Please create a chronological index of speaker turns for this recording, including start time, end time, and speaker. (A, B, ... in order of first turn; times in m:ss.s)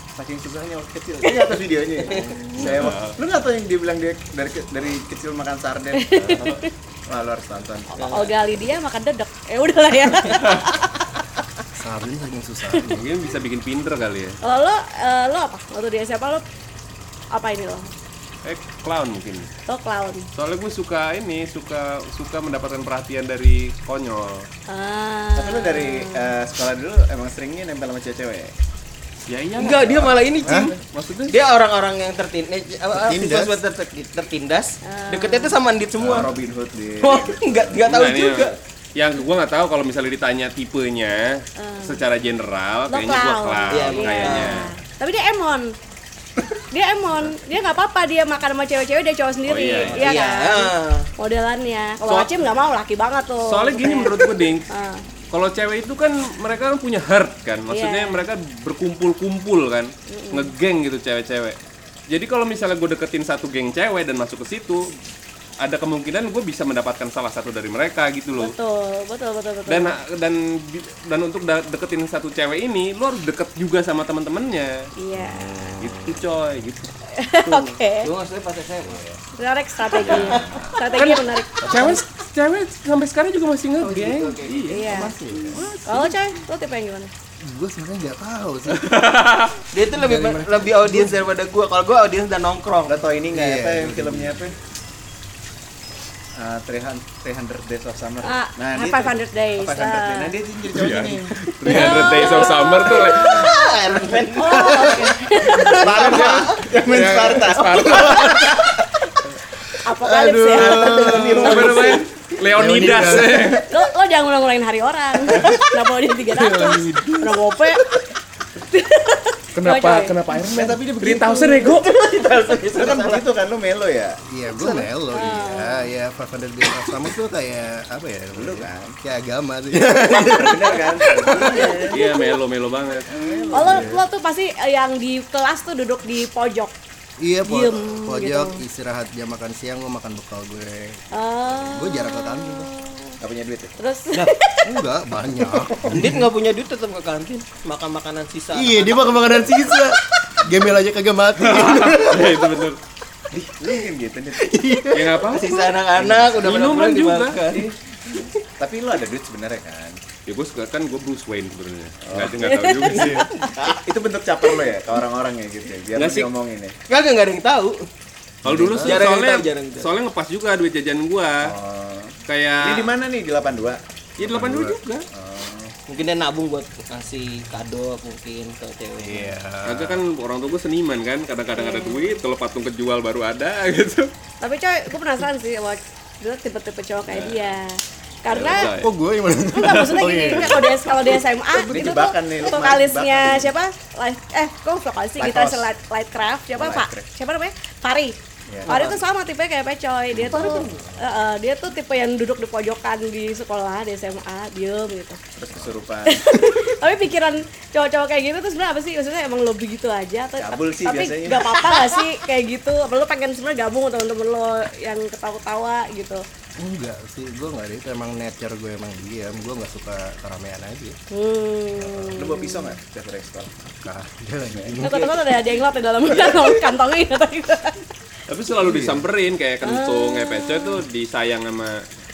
0:00.1-0:08.4 A
0:02.2-0:02.6 B
0:02.5-0:03.2 C
0:05.9-0:06.7 B
0:06.2-0:06.6 C
0:08.0-0:11.1 B
0:08.0-0:08.3 D
0:11.7-0:13.0 E
0:12.9-0:14.4 C
0:14.4-0:16.4 B
0:17.3-0:17.9 B
0:18.4-0:19.5 C
0:19.7-0:20.2 B
0:20.3-0:24.5 C
0:24.7-0:26.4 B
0:25.3-0:28.5 A
0:29.3-0:31.4 C
0:29.6-0:30.7 D
0:30.4-0:30.7 E
0:31.3-0:36.3 D
0:32.9-0:33.5 E
0:34.8-0:35.6 B
0:36.0-0:36.3 C
0:36.0-0:38.0 A
0:37.0-0:38.6 D
0:37.8-0:44.7 C
0:41.6-0:42.0 B
0:42.9-0:45.7 B
0:43.7-0:44.6 D
0:46.7-0:55.0 B
0:49.5-0:50.1 C
0:49.8-0:51.1 D
0:52.0-0:52.3 C
0:53.4-0:54.7 C
0:55.3-1:01.6 C
0:57.7-0:58.2 B
1:00.1-1:00.5 B
1:02.1-1:04.9 C
1:05.6-1:08.5 C
1:08.4-1:10.0 B
1:09.7-1:14.9 C
1:15.0-1:15.8 B
1:15.2-1:16.2 E
1:15.8-1:16.9 C
1:17.1-1:18.1 B
1:18.0-1:19.1 D
1:19.4-1:22.0 B
1:19.9-1:26.1 C
1:20.0-1:20.8 A
1:21.6-1:22.0 A
1:23.8-1:24.8 D
1:24.6-1:25.2 B
1:24.8-1:25.7 E
1:25.8-1:27.1 B
1:27.4-1:29.0 E
1:28.7-1:29.6 C
1:29.7-1:33.0 D
1:29.9-1:31.2 E
1:32.8-1:34.5 A
1:33.3-1:34.4 E
1:36.4-1:41.8 A
1:38.2-1:40.3 B
1:40.7-1:43.5 C
1:41.7-1:43.5 B
1:42.9-1:45.1 D
1:44.4-1:46.0 B
1:45.7-1:48.9 A
1:45.7-1:48.6 C
1:46.0-1:46.6 D
1:49.8-1:51.7 B
1:50.0-1:51.9 E
1:50.5-1:52.1 D
1:51.4-1:53.7 C
1:52.5-1:53.6 E
1:53.6-1:58.0 B
1:56.3-1:57.4 C
1:58.6-2:00.2 B
1:59.5-2:01.9 C
2:00.4-2:01.6 A
2:01.4-2:01.7 B
2:01.7-2:03.3 D
2:02.7-2:04.2 A
2:04.3-2:11.7 E
2:04.6-2:05.9 B
2:08.3-2:08.9 A
2:10.3-2:12.0 A
2:11.4-2:11.8 D
2:11.9-2:13.1 C
2:13.0-2:14.0 A
2:13.1-2:16.7 B
2:13.6-2:14.0 E
2:17.2-2:22.7 E
2:17.4-2:18.6 B
2:21.1-2:23.2 B
2:23.2-2:23.8 A
2:23.8-2:24.6 B
2:24.6-2:26.2 E
2:25.8-2:29.8 D
2:28.5-2:32.5 E
2:31.4-2:32.8 C
2:33.3-2:34.8 A
2:34.4-2:35.4 E
2:34.9-2:35.6 C
2:35.2-2:38.3 D
2:36.0-2:36.8 A
2:36.4-2:37.6 C
2:38.6-2:40.0 A
2:40.2-2:43.3 C
2:42.0-2:46.8 A
2:42.4-2:43.5 B
2:42.9-2:43.7 D
2:46.9-2:47.8 D
2:48.4-2:49.1 E
2:48.4-2:51.5 C
2:48.8-2:49.9 D
2:51.4-2:53.8 A
2:52.3-2:52.9 C
2:54.2-2:55.0 C
2:54.2-2:54.8 E
2:55.1-2:55.7 A
2:55.9-2:59.4 D
2:59.0-3:00.0 E
2:59.6-3:04.1 C
3:01.6-3:02.2 B
3:04.4-3:08.7 B
3:07.1-3:07.5 C
3:08.3-3:08.9 C
3:08.5-3:10.7 E
3:09.6-3:25.2 B
3:09.7-3:10.4 C
3:11.5-3:13.6 A
3:15.2-3:15.7 A
3:16.5-3:17.1 A
3:18.5-3:18.8 A
3:18.6-3:19.0 D
3:20.2-3:20.8 D
3:25.4-3:26.3 A
3:26.0-3:36.2 B
3:30.4-3:32.0 A
3:36.6-3:41.0 E
3:41.1-3:42.7 B
3:42.0-3:43.5 A
3:43.8-3:45.0 E
3:44.5-3:44.9 A
3:44.8-3:47.8 B
3:44.9-3:46.8 D
3:48.3-3:51.8 C
3:48.5-3:49.0 E
3:49.6-3:50.8 B